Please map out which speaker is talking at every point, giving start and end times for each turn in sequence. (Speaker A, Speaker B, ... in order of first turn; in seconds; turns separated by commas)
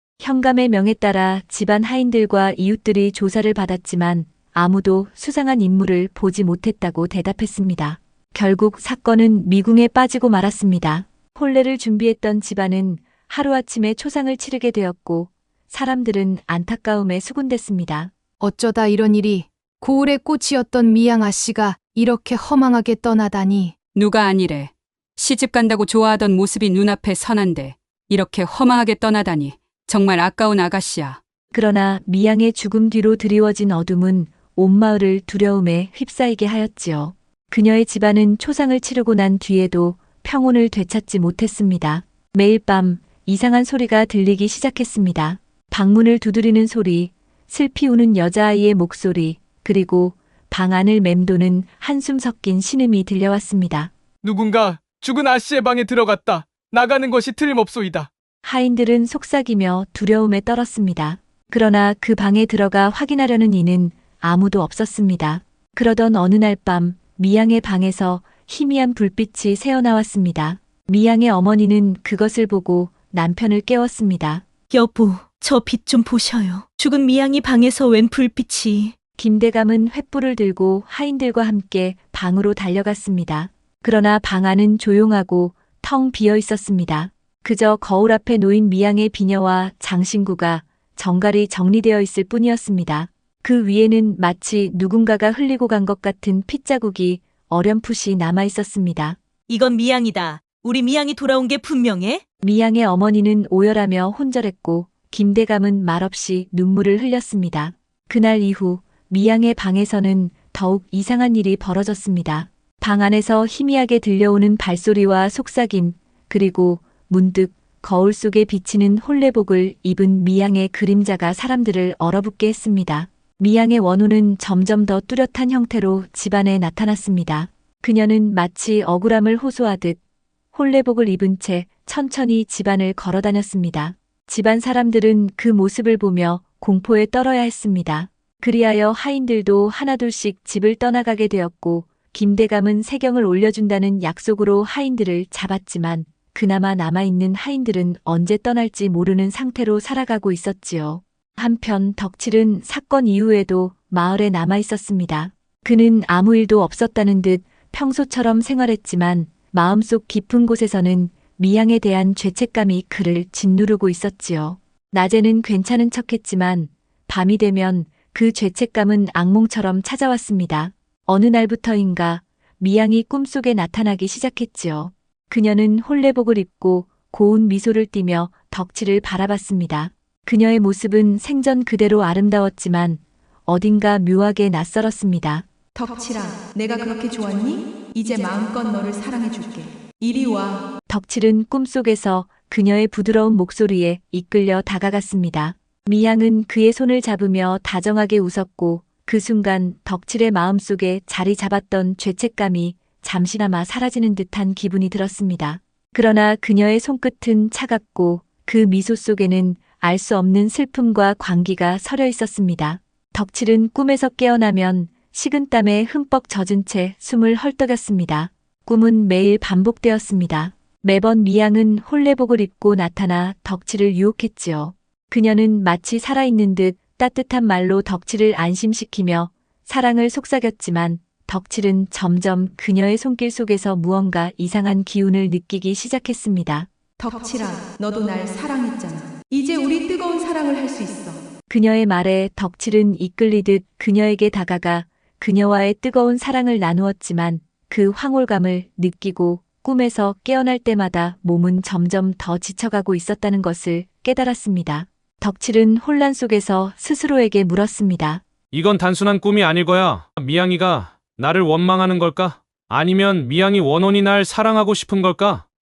Speaker A: 0.2-18.1, Speaker B: 18.4-23.8, Speaker C: 23.9-31.2, Speaker A: 31.5-53.9, Speaker D: 54.2-58.1, Speaker A: 58.4-74.4, Speaker E: 74.7-78.9, Speaker A: 79.2-99.2, Speaker E: 99.5-102.2, Speaker A: 102.4-130.0, Speaker A: 130.5-185.4, Speaker F: 185.7-190.7, Speaker A: 190.9-236.7, Speaker F: 237.0-241.2, Speaker A: 241.5-258.2, Speaker G: 258.5-265.4